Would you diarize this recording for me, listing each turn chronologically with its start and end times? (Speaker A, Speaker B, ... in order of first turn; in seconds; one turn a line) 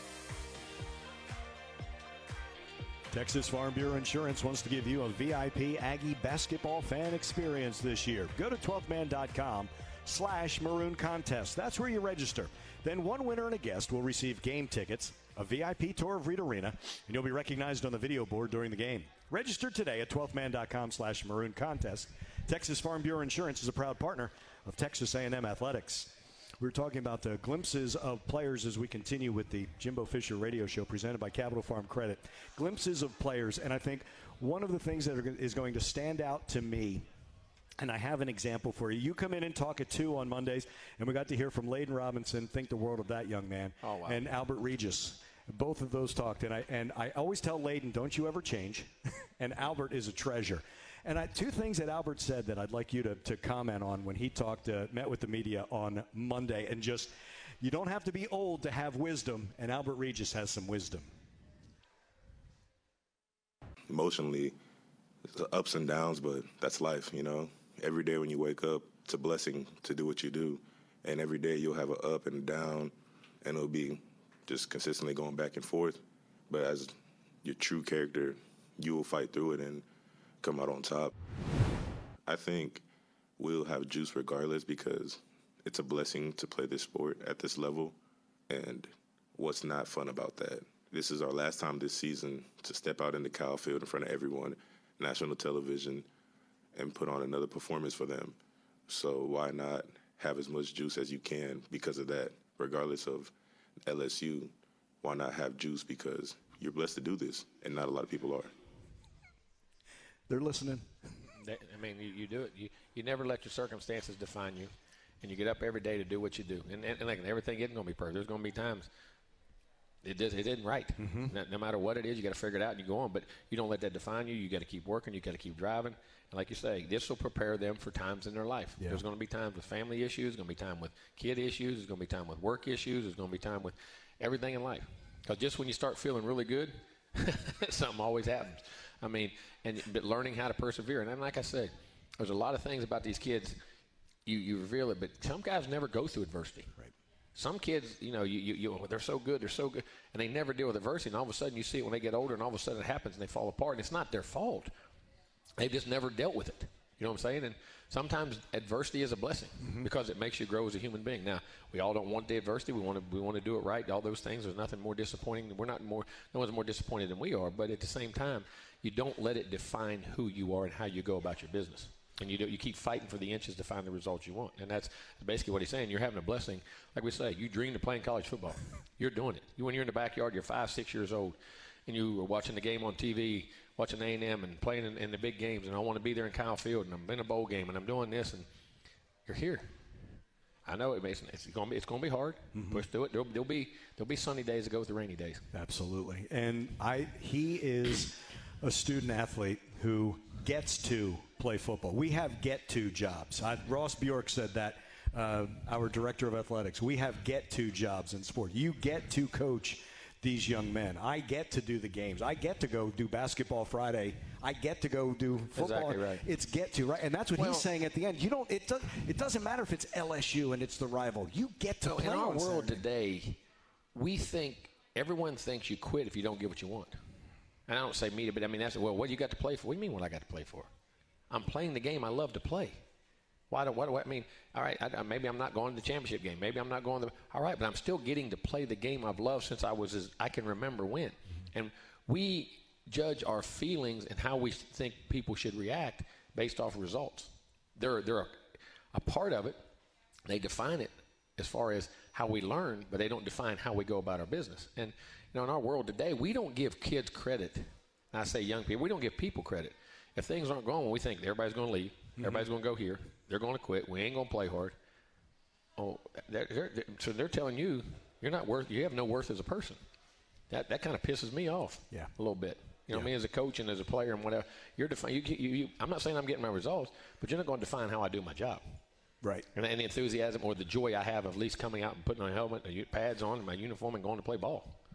Speaker A: 3.1-37.1
Speaker A: 37.8-61.1
Speaker B: 43.8-44.2
Speaker C: 63.9-64.5
Speaker C: 65.2-79.8
Speaker C: 80.4-81.1
Speaker C: 82.2-82.8
Speaker C: 83.4-88.0
Speaker C: 88.5-96.1
Speaker C: 96.7-103.3
Speaker C: 103.8-104.5
Speaker C: 105.0-108.5
Speaker A: 110.3-111.0
Speaker B: 111.3-118.9
Speaker B: 120.0-143.6
Speaker A: 121.0-121.3
Speaker B: 144.2-146.7
Speaker B: 147.3-154.7
Speaker B: 155.6-181.3
Speaker B: 181.9-188.5
Speaker B: 189.2-189.7
Speaker B: 190.7-195.4
Speaker A: 192.5-192.8
Speaker A: 195.5-222.8
Speaker B: 215.5-216.2
Speaker B: 217.3-217.7
Speaker B: 221.8-223.4
Speaker B: 223.9-227.0
Speaker B: 227.7-230.7
Speaker B: 231.3-232.8
Speaker B: 233.5-249.6
Speaker B: 250.3-264.8
Speaker A: 262.2-262.5
Speaker B: 265.8-269.8
Speaker B: 270.5-278.8
Speaker B: 279.5-284.8